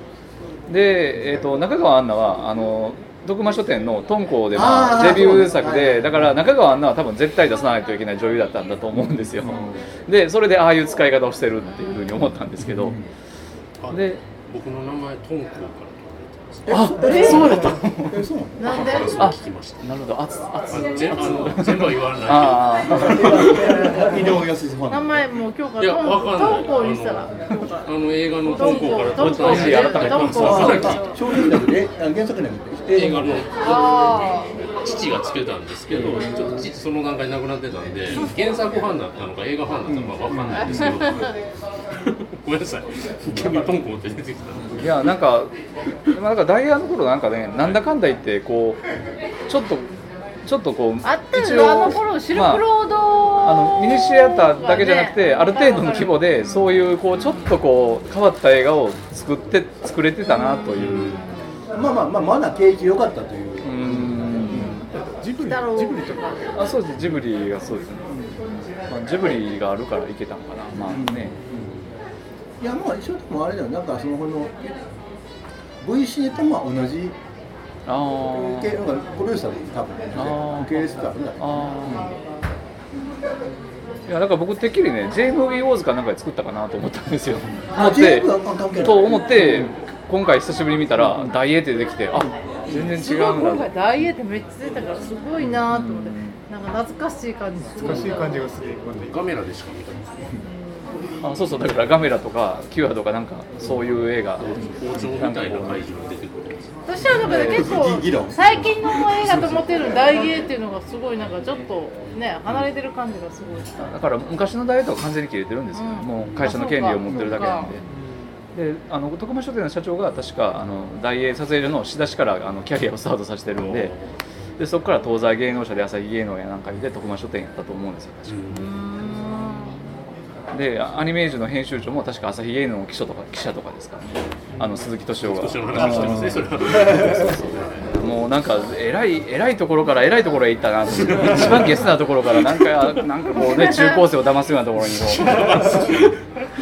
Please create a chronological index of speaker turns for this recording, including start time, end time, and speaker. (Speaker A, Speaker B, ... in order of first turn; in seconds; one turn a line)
Speaker A: 0.7-13.0
Speaker B: 4.5-6.3
Speaker B: 9.4-9.8
Speaker C: 11.7-12.3
Speaker B: 12.6-13.1
Speaker D: 13.8-16.6
Speaker A: 13.9-14.2
Speaker B: 16.6-19.0
Speaker A: 16.7-18.2
Speaker C: 17.0-17.5
Speaker C: 18.6-19.3
Speaker D: 18.6-19.9
Speaker A: 19.1-23.6
Speaker D: 20.7-23.6
Speaker C: 20.7-21.3
Speaker B: 22.9-25.2
Speaker C: 24.9-27.9
Speaker D: 25.8-31.4
Speaker C: 28.4-31.2
Speaker A: 28.6-31.1
Speaker B: 30.4-33.5
Speaker D: 32.9-41.3
Speaker C: 33.6-34.5
Speaker B: 35.9-36.6
Speaker B: 39.9-41.0
Speaker C: 40.7-41.3
Speaker D: 41.9-44.9
Speaker A: 44.7-48.8
Speaker A: 49.5-49.9
Speaker A: 50.4-52.7
Speaker C: 51.0-57.5
Speaker A: 53.4-61.2
Speaker C: 60.3-61.6
Speaker B: 61.7-64.8
Speaker A: 63.6-64.8
Speaker E: 64.7-66.9
Speaker C: 65.4-66.5
Speaker A: 66.5-68.2
Speaker B: 68.1-68.4
Speaker A: 68.9-71.4
Speaker B: 70.8-71.8
Speaker B: 72.6-74.5
Speaker B: 75.8-77.2
Speaker A: 77.8-78.8
Speaker B: 78.2-82.1
Speaker A: 80.1-82.1
Speaker A: 84.1-88.3
Speaker B: 87.6-89.7
Speaker A: 88.8-93.7
Speaker B: 91.0-91.3
Speaker C: 92.7-98.5
Speaker A: 95.4-96.4
Speaker E: 97.8-99.2
Speaker D: 98.9-100.2
Speaker C: 100.4-101.0
Speaker A: 101.2-105.8
Speaker D: 104.4-106.8
Speaker C: 106.8-113.9
Speaker B: 107.0-108.6
Speaker D: 108.5-109.5
Speaker A: 113.9-117.8
Speaker C: 115.7-117.7
Speaker D: 116.2-116.5
Speaker E: 117.8-118.4
Speaker A: 118.5-123.9
Speaker D: 123.5-124.2
Speaker A: 124.6-128.7
Speaker D: 128.2-128.7
Speaker C: 128.5-129.8
Speaker A: 130.5-145.8
Speaker D: 135.1-138.0
Speaker B: 135.8-136.1
Speaker D: 140.9-141.9
Speaker C: 143.3-144.2
Speaker D: 144.9-146.2